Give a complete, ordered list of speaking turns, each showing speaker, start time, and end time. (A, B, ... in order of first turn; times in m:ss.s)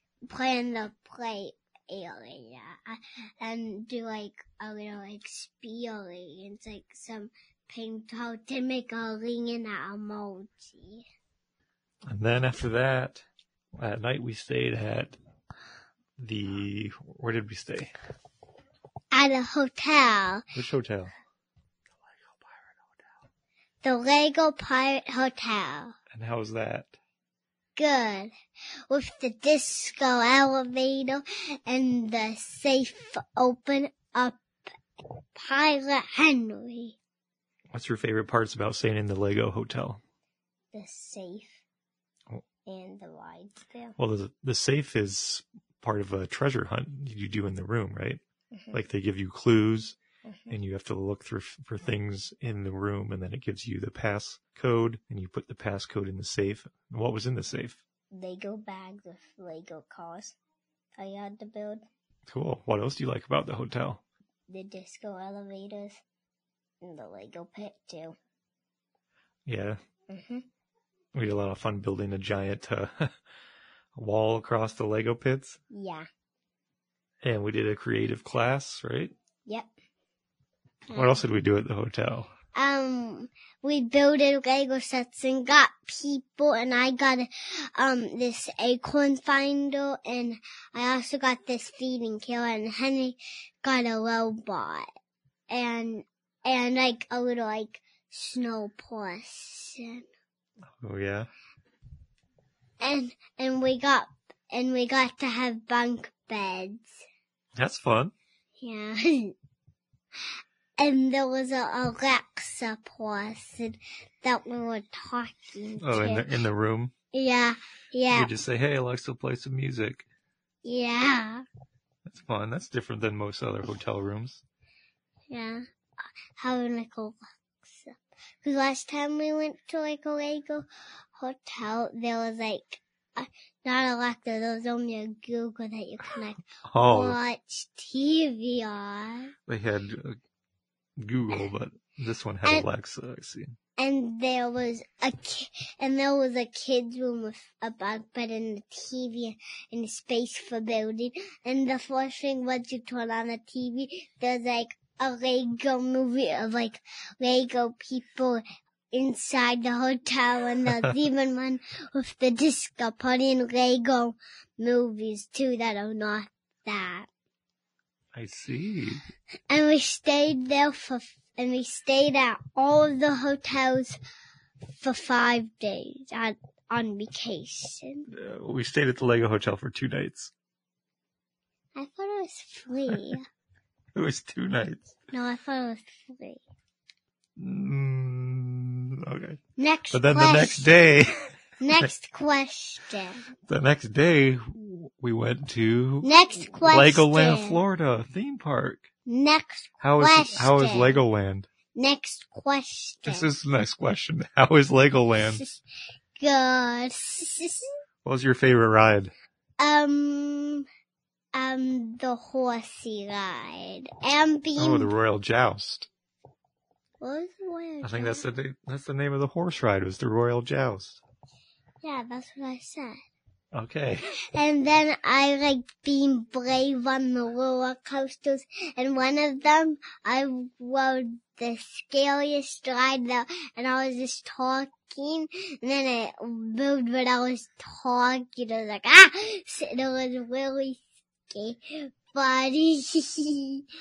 0:00.3-0:11.0 A
0:12.1-0:13.2 B
0:13.8-0:15.2 B
0:16.2-0:17.9 B
0:19.1-0:20.4 A
0:20.6-0:21.1 B
0:23.8-0:25.9 A
0:26.1-0:26.9 B
0:27.8-0:28.3 A
0:28.9-0:34.4 A
0:35.3-0:37.0 A
0:37.7-0:40.0 B
0:40.7-0:41.6 A
0:42.6-0:44.0 A
0:44.0-0:48.2 B
0:48.5-0:48.8 A
0:48.7-0:50.0 B
0:50.2-0:50.6 A
0:50.5-0:57.8 B
0:58.1-1:00.4 A
1:01.0-1:01.8 A
1:02.3-1:04.0 B
1:04.5-1:06.0 A
1:06.8-1:08.2 A
1:09.4-1:09.8 B
1:10.1-1:10.4 A
1:11.1-1:13.1 B
1:14.0-1:15.6 B
1:15.7-1:16.1 A
1:17.2-1:19.1 B
1:19.4-1:19.7 A
1:20.9-1:21.2 A
1:20.9-1:22.3 B
1:22.5-1:34.8 A
1:35.5-1:40.0 A
1:40.8-1:41.3 B
1:42.8-1:47.0 A
1:47.6-1:48.1 B
1:48.6-1:49.3 A
1:50.8-1:56.3 A
1:55.8-1:56.9 B
1:57.1-1:58.3 A
1:58.1-2:00.0 B
2:00.6-2:01.4 A
2:02.1-2:04.4 B
2:05.3-2:05.6 A
2:06.3-2:19.3 A
2:16.7-2:17.2 B
2:19.5-2:20.2 B
2:21.0-2:23.6 B
2:23.8-2:47.1 A
2:48.1-2:49.0 B
2:49.5-2:54.0 A
2:54.7-2:58.1 A
2:58.1-3:00.3 B
3:01.8-3:03.2 A
3:03.9-3:04.9 B
3:05.1-3:06.4 A
3:07.4-3:09.4 B
3:09.6-3:10.7 A
3:09.9-3:11.9 B
3:11.6-3:13.2 A
3:13.5-3:16.1 B
3:16.0-3:17.6 A
3:16.6-3:18.8 B
3:19.1-3:21.0 A
3:19.8-3:21.5 B
3:21.7-3:23.3 A
3:23.0-3:25.4 B
3:25.2-3:25.6 A
3:26.2-3:27.7 A
3:28.0-3:29.1 B
3:29.6-3:30.6 A
3:31.3-3:34.9 A
3:34.6-3:35.9 B
3:37.0-3:38.2 A
3:37.8-3:41.0 B
3:41.8-3:43.0 A
3:43.5-3:44.0 B
3:44.3-4:03.6 A